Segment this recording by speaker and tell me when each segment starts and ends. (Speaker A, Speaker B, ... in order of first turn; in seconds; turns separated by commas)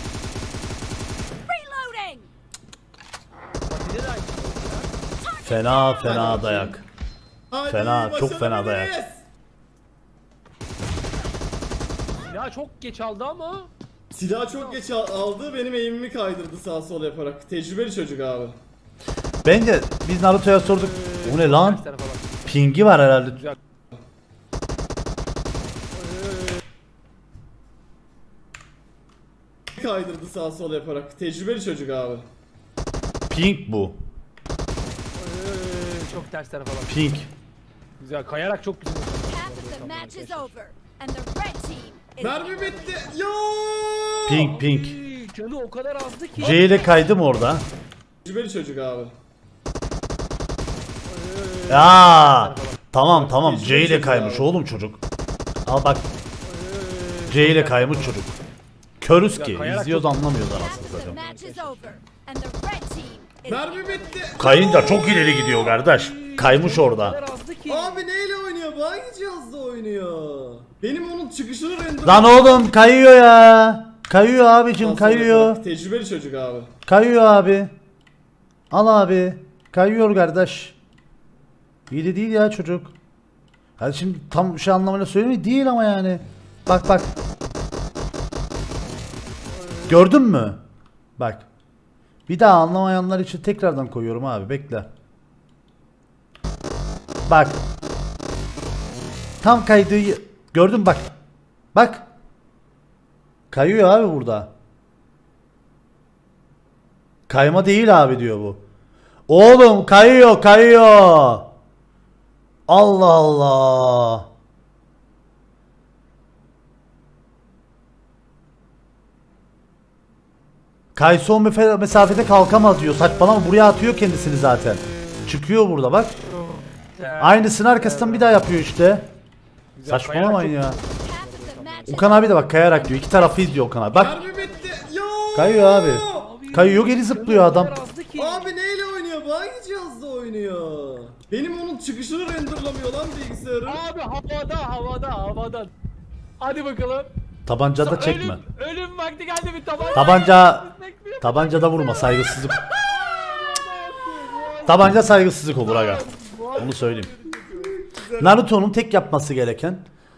Speaker A: 1.5-2.3, Speaker B: 3.7-4.9, Speaker A: 5.2-6.3, Speaker C: 5.4-6.8, Speaker D: 6.0-6.8, Speaker D: 7.5-9.2, Speaker C: 7.7-8.9, Speaker B: 12.2-13.7, Speaker D: 14.1-18.6, Speaker B: 14.5-14.8, Speaker C: 19.4-21.8, Speaker B: 20.6-22.4, Speaker C: 22.4-23.4, Speaker B: 25.9-26.6, Speaker D: 29.7-32.3, Speaker C: 33.3-34.0, Speaker B: 35.1-37.0, Speaker C: 36.9-37.3, Speaker B: 38.0-40.5, Speaker A: 39.3-43.0, Speaker D: 42.2-44.5, Speaker B: 42.6-43.0, Speaker C: 44.2-45.0, Speaker B: 44.3-46.9, Speaker C: 46.4-47.6, Speaker D: 48.2-49.1, Speaker B: 51.0-52.8, Speaker C: 51.7-55.0, Speaker D: 53.0-54.5, Speaker C: 55.6-56.1, Speaker B: 56.4-58.2, Speaker C: 57.3-58.4, Speaker C: 59.0-61.2, Speaker B: 59.3-61.8, Speaker A: 60.5-65.2, Speaker D: 63.5-65.3, Speaker C: 64.4-67.2, Speaker B: 65.1-68.1, Speaker D: 67.7-72.7, Speaker C: 72.0-75.6, Speaker D: 74.8-76.7, Speaker C: 76.8-77.7, Speaker C: 78.7-80.8, Speaker C: 81.9-82.9, Speaker C: 83.8-87.1, Speaker B: 89.5-90.1, Speaker C: 89.9-90.6, Speaker C: 91.2-91.5, Speaker C: 92.3-94.9, Speaker C: 97.3-97.6, Speaker C: 99.4-101.1, Speaker C: 101.7-102.1, Speaker C: 103.5-104.5, Speaker C: 107.3-108.6, Speaker C: 109.3-111.5, Speaker C: 112.7-114.3, Speaker C: 120.9-126.2, Speaker B: 127.0-128.4, Speaker C: 127.2-129.1, Speaker B: 129.8-132.2, Speaker C: 129.9-130.8, Speaker A: 131.0-134.8, Speaker C: 131.9-134.2, Speaker D: 133.9-136.3, Speaker B: 134.2-134.8, Speaker C: 135.3-137.7, Speaker B: 136.1-138.6, Speaker D: 138.2-143.8, Speaker B: 143.7-145.7, Speaker B: 146.4-147.1, Speaker C: 147.4-148.4, Speaker B: 147.8-155.0, Speaker C: 149.9-150.7, Speaker C: 151.2-152.6, Speaker C: 154.7-157.1, Speaker B: 155.6-157.8, Speaker D: 157.3-158.4, Speaker C: 158.2-159.8